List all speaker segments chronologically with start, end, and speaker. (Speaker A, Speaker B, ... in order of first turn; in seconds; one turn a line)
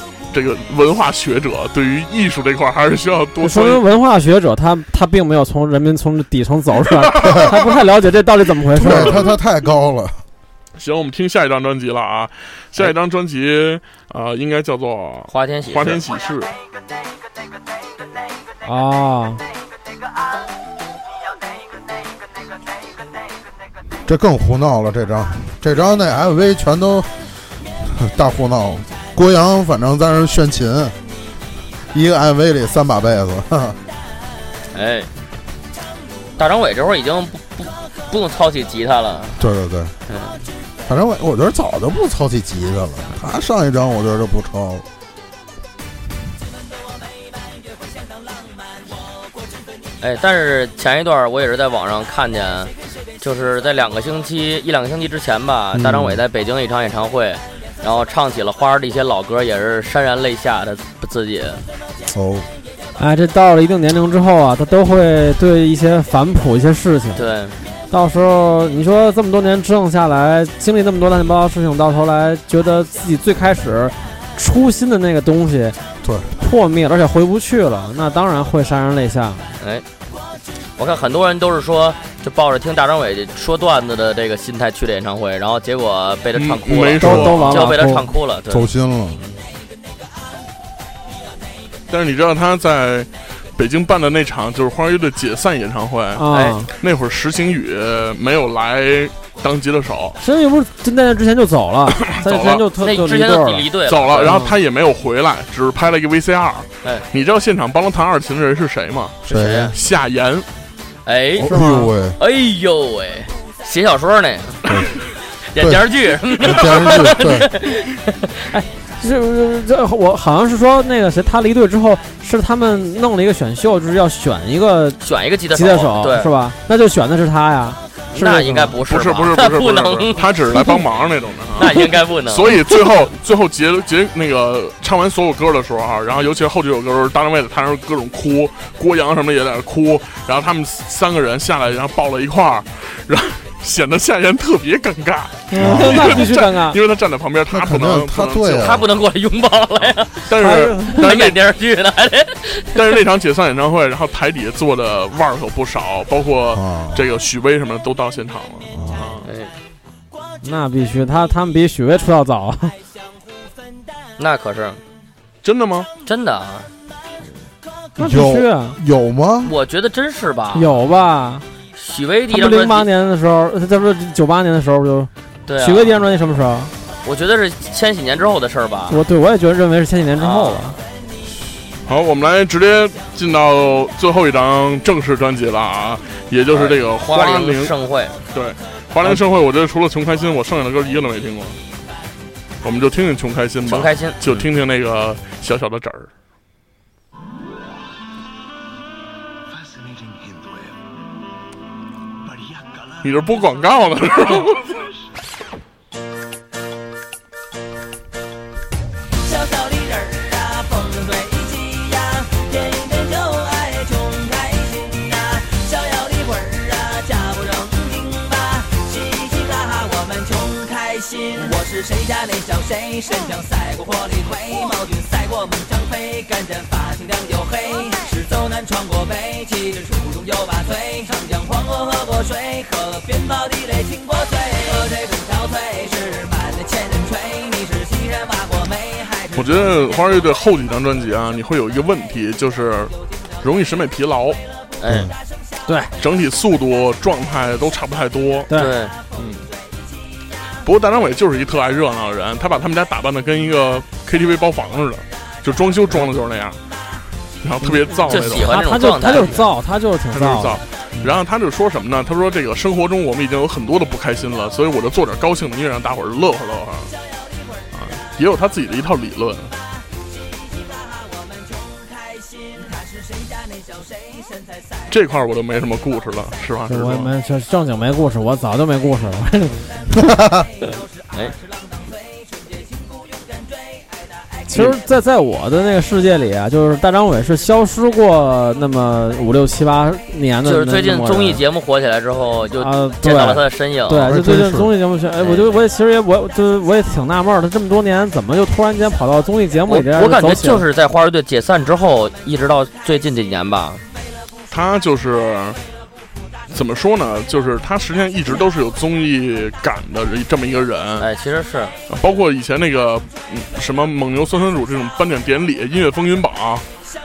Speaker A: 0.3-3.8
Speaker B: 3.4-9.2
Speaker A: 7.0-7.6
Speaker C: 7.2-7.6
Speaker C: 8.8-10.2
Speaker A: 8.8-9.3
Speaker A: 10.8-16.5
Speaker D: 15.3-16.0
Speaker B: 18.6-19.4
Speaker C: 24.1-27.1
Speaker C: 27.8-30.9
Speaker C: 31.9-33.8
Speaker D: 34.7-35.1
Speaker D: 36.4-39.4
Speaker C: 39.4-39.9
Speaker D: 40.1-40.4
Speaker C: 40.9-44.8
Speaker D: 50.0-61.6
Speaker C: 55.7-56.2
Speaker C: 62.1-62.5
Speaker B: 63.0-67.2
Speaker D: 67.1-67.6
Speaker B: 67.9-75.8
Speaker C: 76.0-76.3
Speaker B: 76.3-79.5
Speaker D: 79.6-79.8
Speaker D: 80.8-88.7
Speaker A: 86.3-87.8
Speaker B: 87.0-88.0
Speaker C: 88.5-89.3
Speaker A: 91.9-100.2
Speaker B: 96.1-96.7
Speaker D: 96.3-96.6
Speaker B: 100.2-104.5
Speaker A: 102.0-102.7
Speaker D: 102.8-104.4
Speaker A: 103.8-110.5
Speaker C: 109.2-109.8
Speaker D: 109.3-109.7
Speaker D: 111.0-111.6
Speaker C: 111.4-112.2
Speaker B: 111.5-111.9
Speaker D: 112.2-114.7
Speaker C: 114.7-114.9
Speaker D: 115.5-118.5
Speaker C: 115.6-115.8
Speaker C: 116.3-117.5
Speaker B: 118.5-128.8
Speaker D: 125.0-126.3
Speaker D: 128.1-130.8
Speaker A: 128.8-148.8
Speaker D: 131.6-132.8
Speaker B: 145.5-146.8
Speaker C: 145.6-146.3
Speaker C: 147.5-148.8
Speaker D: 148.6-150.3
Speaker A: 150.2-151.4
Speaker B: 150.4-151.1
Speaker D: 150.9-152.8
Speaker A: 152.7-159.3
Speaker C: 156.5-157.0
Speaker C: 158.7-159.2
Speaker D: 159.2-159.5
Speaker B: 160.4-162.7
Speaker D: 164.2-164.8
Speaker A: 165.4-165.9
Speaker D: 166.0-166.7
Speaker B: 168.0-168.8
Speaker C: 168.0-169.5
Speaker D: 169.4-170.7
Speaker B: 170.5-171.4
Speaker D: 171.8-172.9
Speaker B: 172.3-176.7
Speaker D: 175.4-176.0
Speaker D: 177.0-179.0
Speaker B: 178.9-180.8
Speaker D: 180.2-180.8
Speaker A: 181.8-187.7
Speaker D: 186.5-188.2
Speaker A: 188.3-191.6
Speaker A: 192.6-196.1
Speaker D: 193.6-194.2
Speaker A: 203.0-204.9
Speaker E: 209.2-240.0
Speaker A: 239.3-244.4
Speaker D: 244.8-245.1
Speaker C: 244.8-245.1
Speaker B: 245.7-245.9
Speaker A: 246.0-248.5
Speaker B: 248.5-248.8
Speaker D: 248.5-248.9
Speaker A: 249.1-249.5
Speaker A: 250.6-256.6
Speaker A: 257.4-259.2
Speaker B: 257.7-260.6
Speaker D: 258.1-259.5
Speaker A: 260.1-266.9
Speaker A: 267.7-269.5
Speaker E: 270.3-274.9
Speaker A: 274.9-277.1
Speaker B: 276.7-279.6
Speaker C: 280.1-280.4
Speaker E: 280.3-284.1
Speaker B: 284.5-291.4
Speaker D: 290.4-294.2
Speaker B: 292.6-300.6
Speaker C: 293.9-294.7
Speaker D: 295.2-295.6
Speaker D: 299.7-303.8
Speaker A: 304.5-305.6
Speaker A: 306.5-311.1
Speaker D: 311.0-311.7
Speaker A: 311.9-316.7